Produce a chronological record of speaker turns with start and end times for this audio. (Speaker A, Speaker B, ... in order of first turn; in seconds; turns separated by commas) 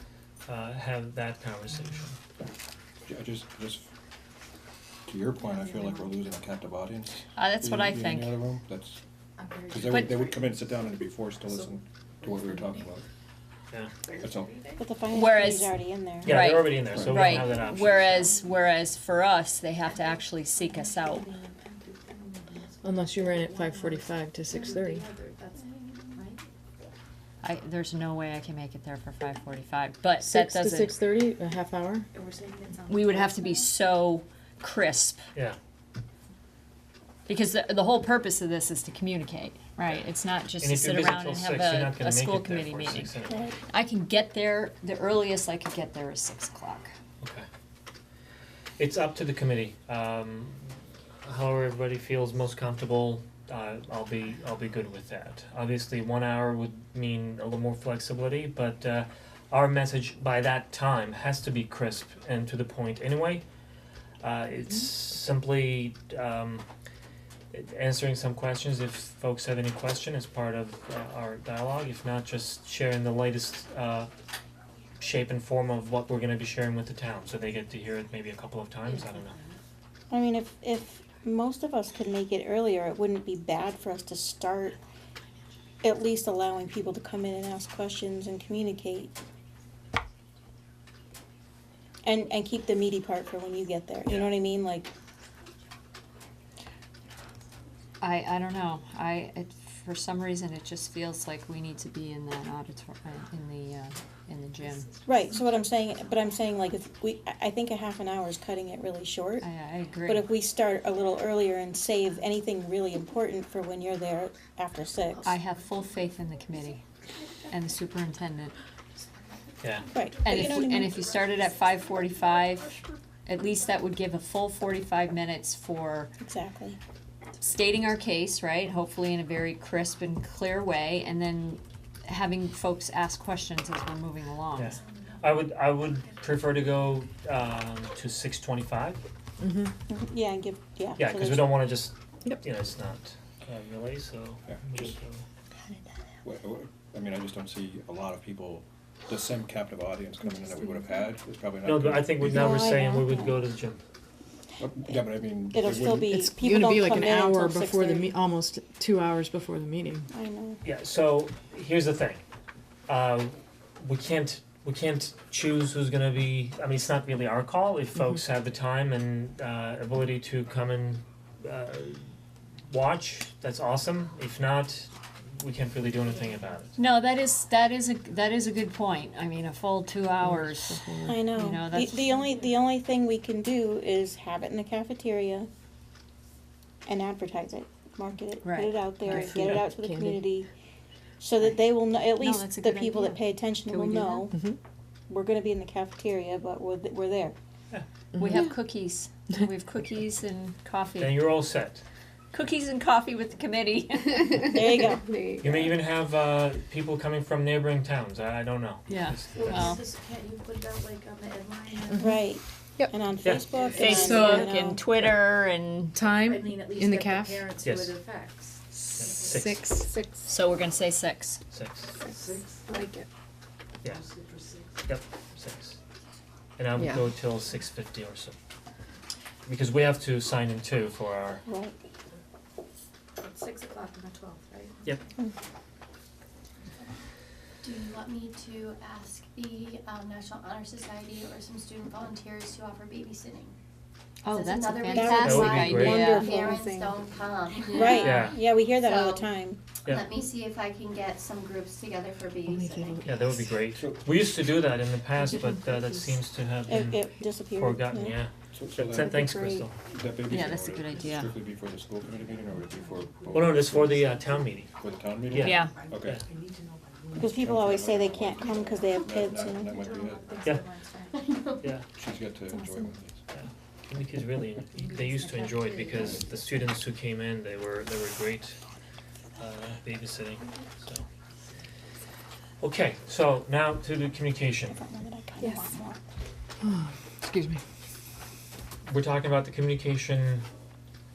Speaker A: 0.5-2.1, Speaker B: 3.0-3.9, Speaker B: 5.0-9.0, Speaker C: 5.4-6.2, Speaker D: 7.3-8.4, Speaker C: 9.4-10.8, Speaker B: 9.7-13.0, Speaker C: 11.4-12.9, Speaker C: 14.0-14.8, Speaker B: 14.2-14.5, Speaker E: 14.8-16.4, Speaker D: 15.1-21.3, Speaker A: 16.2-18.3, Speaker B: 16.9-17.4, Speaker C: 17.2-18.5, Speaker C: 19.9-26.4, Speaker F: 22.8-25.1, Speaker D: 27.4-31.0, Speaker F: 30.2-32.1, Speaker C: 32.1-33.6, Speaker D: 32.9-35.2, Speaker D: 37.3-46.9, Speaker A: 40.6-43.5, Speaker A: 47.2-47.5, Speaker A: 48.8-63.4, Speaker A: 64.2-66.7, Speaker A: 67.5-74.1, Speaker A: 75.0-79.4, Speaker C: 79.0-79.6, Speaker E: 80.1-84.8, Speaker E: 85.8-89.1, Speaker E: 92.0-94.9, Speaker D: 98.0-104.9, Speaker E: 105.0-109.5, Speaker D: 109.4-110.3, Speaker E: 110.0-115.2, Speaker D: 115.2-116.8, Speaker D: 117.5-118.5, Speaker C: 119.0-120.4, Speaker A: 119.6-119.9, Speaker E: 119.9-121.0, Speaker D: 120.2-126.1, Speaker C: 121.0-122.9, Speaker E: 126.2-126.8, Speaker D: 127.4-134.8, Speaker A: 134.5-139.0, Speaker F: 139.4-139.7, Speaker E: 139.9-141.5, Speaker A: 141.0-145.2, Speaker B: 144.4-144.9, Speaker B: 146.2-152.6, Speaker A: 151.6-153.8, Speaker E: 152.2-153.4, Speaker B: 154.6-156.1, Speaker E: 155.5-158.1, Speaker F: 156.0-160.1, Speaker E: 160.1-160.6, Speaker A: 160.6-162.2, Speaker A: 162.9-172.1, Speaker A: 172.7-176.8, Speaker D: 176.8-180.8, Speaker F: 180.2-181.2, Speaker E: 181.1-185.5, Speaker D: 181.3-182.1, Speaker E: 186.8-190.5, Speaker D: 188.4-189.5, Speaker F: 189.0-190.2, Speaker E: 191.2-194.5, Speaker D: 191.4-194.3, Speaker F: 194.3-194.6, Speaker E: 195.1-197.3, Speaker F: 198.1-198.4, Speaker D: 198.1-201.3, Speaker A: 201.0-201.8, Speaker D: 202.3-204.8, Speaker E: 204.5-205.1, Speaker A: 205.4-209.8, Speaker D: 208.9-209.8, Speaker C: 209.3-212.1, Speaker E: 211.9-214.8, Speaker A: 213.2-213.5, Speaker C: 213.4-214.4, Speaker D: 213.7-216.0, Speaker F: 213.9-214.4, Speaker F: 215.9-217.5, Speaker C: 216.2-220.2, Speaker A: 217.6-217.9, Speaker F: 218.7-220.1, Speaker A: 219.0-219.7, Speaker D: 220.2-221.4, Speaker A: 221.5-221.9, Speaker F: 222.1-223.0, Speaker C: 223.9-224.6, Speaker A: 224.8-225.8, Speaker A: 226.6-228.4, Speaker F: 226.8-227.1, Speaker A: 229.4-231.4, Speaker E: 231.5-231.8, Speaker C: 233.2-234.8, Speaker G: 237.6-243.6, Speaker D: 244.2-246.3, Speaker G: 244.3-249.3, Speaker E: 244.9-246.6, Speaker A: 245.2-246.1, Speaker C: 246.0-246.9, Speaker E: 247.7-249.6, Speaker A: 248.0-248.4, Speaker G: 249.9-253.3, Speaker F: 252.5-253.4, Speaker A: 253.0-259.8, Speaker B: 253.8-254.1, Speaker D: 255.3-255.6, Speaker E: 256.7-258.2, Speaker B: 258.5-259.2, Speaker B: 259.8-264.1, Speaker D: 260.2-261.4, Speaker C: 262.6-263.5, Speaker A: 263.3-264.7, Speaker B: 264.7-266.2, Speaker A: 265.3-266.2, Speaker D: 265.4-265.8, Speaker C: 265.6-267.3, Speaker E: 267.1-269.8, Speaker B: 267.3-270.4, Speaker C: 269.5-271.2, Speaker G: 271.1-271.7, Speaker B: 271.9-273.2, Speaker A: 273.3-278.6, Speaker C: 274.9-276.2, Speaker A: 279.4-281.1, Speaker A: 282.6-284.8, Speaker E: 284.7-286.0, Speaker F: 286.6-287.6, Speaker A: 288.9-290.4